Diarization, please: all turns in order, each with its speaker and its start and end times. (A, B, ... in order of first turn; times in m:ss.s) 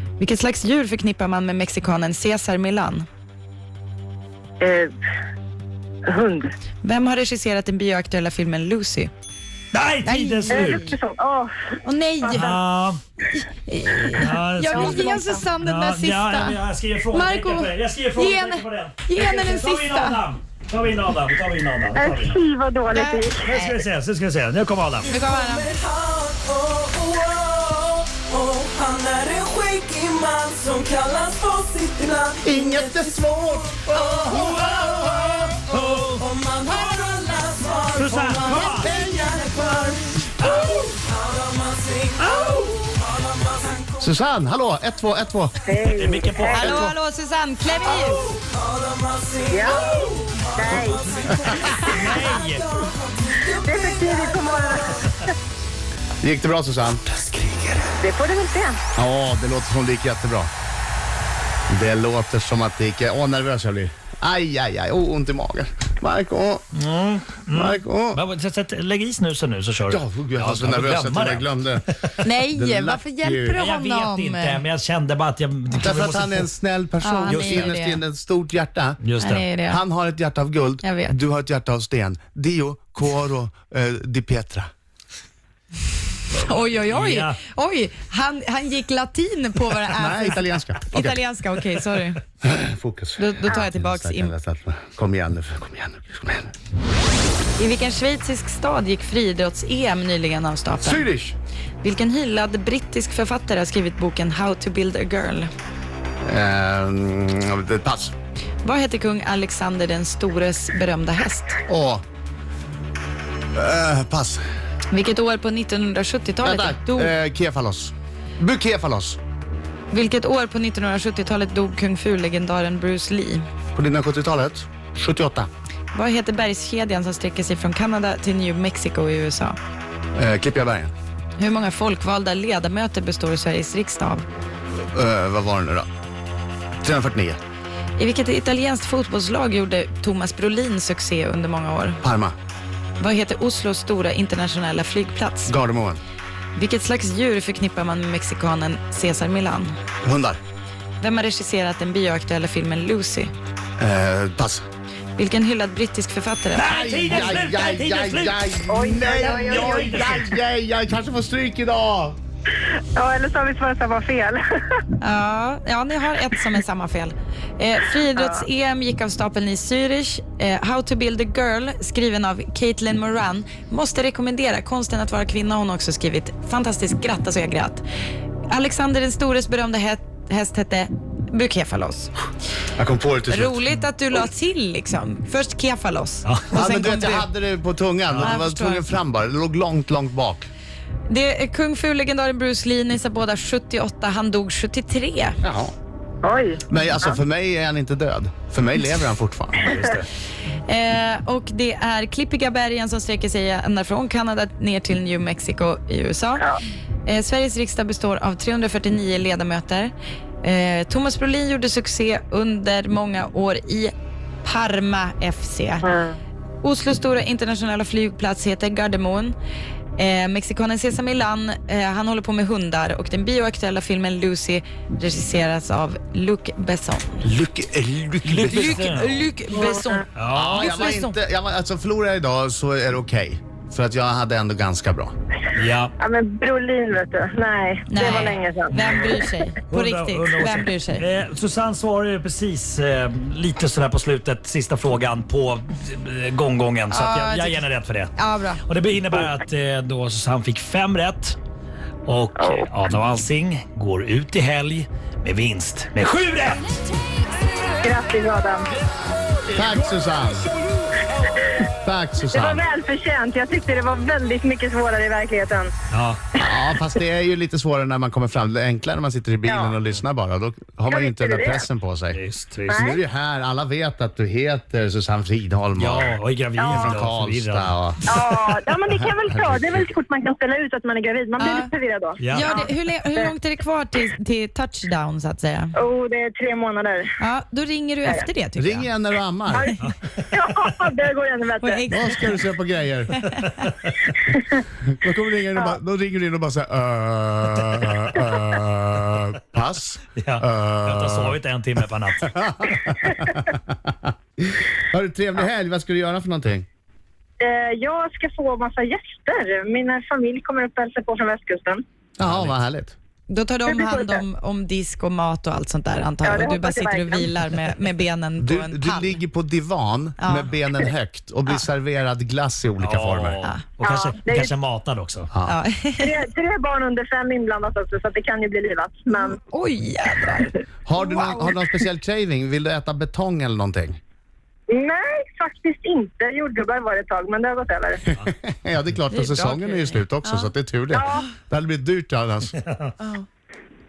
0:00.2-0:03.0 A
0:04.6-0:04.9 B
0:06.1-0:06.5 B
0:06.8-0:09.1 A
0:09.7-0:10.9 C
0:10.0-0:10.9 A
0:10.5-0:11.7 B
0:11.8-0:12.5 A
0:12.2-0:12.6 B
0:12.3-0:13.0 C
0:13.3-0:16.6 A
0:14.1-0:22.4 C
0:14.7-0:15.2 B
0:17.1-0:20.2 A
0:21.9-0:23.4 B
0:22.9-0:23.8 A
0:23.4-0:25.1 C
0:25.0-0:25.7 A
0:25.2-0:33.2 D
0:32.4-0:35.6 E
0:34.0-0:44.0 D
0:35.7-0:36.2 C
0:37.9-0:39.0 C
0:40.4-0:40.8 C
0:44.0-0:45.7 E
0:45.6-0:46.9 B
0:45.8-0:46.9 C
0:46.5-0:48.2 A
0:47.8-0:54.8 D
0:49.5-0:51.2 B
0:51.8-0:52.8 C
0:53.6-0:55.3 B
0:56.2-0:57.0 E
0:58.0-0:58.8 B
0:58.9-1:00.5 E
1:01.7-1:06.6 E
1:06.7-1:12.2 C
1:07.5-1:08.2 E
1:09.9-1:11.8 E
1:12.2-1:14.6 A
1:12.4-1:13.6 E
1:13.6-1:16.5 C
1:15.8-1:19.0 E
1:17.0-1:18.0 A
1:17.3-1:17.7 C
1:19.0-1:19.4 C
1:19.2-1:19.8 A
1:19.6-1:24.7 E
1:20.8-1:21.2 A
1:26.3-1:32.2 A
1:26.8-1:27.4 C
1:29.9-1:31.2 E
1:32.4-1:36.5 E
1:33.2-1:34.3 A
1:37.6-1:41.0 A
1:40.8-1:41.3 E
1:41.8-1:45.5 A
1:46.2-1:48.1 E
1:48.6-1:51.6 A
1:51.7-1:52.0 E
1:53.5-1:54.4 E
1:54.9-1:57.1 A
1:56.4-1:59.2 E
1:59.9-2:03.4 A
2:03.8-2:05.5 E
2:05.9-2:09.6 A
2:10.1-2:10.9 E
2:11.4-2:14.2 A
2:14.9-2:15.9 E
2:16.8-2:17.4 E
2:18.0-2:22.0 A
2:22.0-2:22.3 E
2:23.0-2:25.5 A
2:25.5-2:26.0 E
2:26.5-2:29.7 A
2:30.0-2:30.4 E
2:31.0-2:33.3 A
2:33.8-2:34.6 E
2:35.2-2:36.8 A
2:36.5-2:38.7 C
2:36.6-2:42.2 E
2:38.7-2:40.1 B
2:39.4-2:40.3 C
2:42.9-2:44.4 B
2:45.0-2:57.8 A
2:48.1-2:48.4 B
2:58.5-3:02.1 A
3:02.8-3:03.6 E
3:03.3-3:07.3 A
3:06.5-3:10.5 E
3:08.1-3:08.4 C
3:08.2-3:08.9 A
3:11.1-3:15.4 A
3:15.4-3:15.7 E
3:16.2-3:17.2 B
3:16.7-3:19.8 E
3:19.6-3:20.1 C
3:20.6-3:26.5 A
3:27.0-3:29.9 A
3:30.4-3:33.9 A
3:34.4-3:35.8 A
3:35.8-3:36.2 B
3:36.6-3:39.4 A
3:40.0-3:47.2 A
3:47.2-3:48.8 E
3:48.2-3:49.3 C
3:48.5-3:51.1 A
3:49.5-3:49.9 B
3:50.1-3:50.8 C
3:50.3-3:55.1 E
3:55.5-3:55.9 C
3:56.0-3:59.1 B
3:57.9-4:01.0 A
3:58.7-3:59.1 C
3:59.7-4:11.4 C
4:06.9-4:07.6 A
4:08.2-4:08.6 A
4:12.0-4:16.6 C
4:12.4-4:12.7 B
4:17.8-4:18.7 B
4:19.5-4:20.5 E
4:21.8-4:22.6 E
4:22.3-4:25.7 B
4:25.9-4:26.2 C
4:26.4-4:36.1 E
4:29.5-4:29.7 B
4:30.9-4:31.6 B
4:32.1-4:32.9 C
4:32.7-4:33.0 B
4:35.7-4:37.7 C
4:36.6-4:37.0 B
4:36.7-4:38.0 E
4:38.1-4:43.3 B
4:39.3-4:39.7 E
4:41.4-4:41.7 A
4:42.2-4:42.5 C
4:42.3-4:45.7 A
4:45.8-4:47.1 B
4:47.2-4:48.9 A
4:48.6-4:49.7 E
4:50.3-4:51.9 B
4:51.6-4:52.2 A
4:51.9-4:53.3 E
4:53.2-4:53.5 A
4:53.8-4:54.1 C
4:54.9-5:01.4 E
5:00.2-5:02.8 C
5:02.2-5:06.6 E
5:07.4-5:11.8 B
5:12.2-5:12.9 E
5:12.2-5:12.6 C
5:13.3-5:19.2 A
5:13.7-5:14.2 B
5:16.2-5:17.3 B
5:18.4-5:23.4 E
5:20.2-5:20.6 A
5:22.8-5:25.3 C
5:23.8-5:24.5 B
5:25.3-5:25.6 E
5:25.4-5:26.1 A
5:26.0-5:29.4 B
5:29.3-5:31.6 A
5:30.8-5:34.0 E
5:34.7-5:38.0 B
5:38.1-5:42.5 E
5:39.1-5:40.5 A
5:40.9-5:41.3 B
5:43.0-5:43.2 A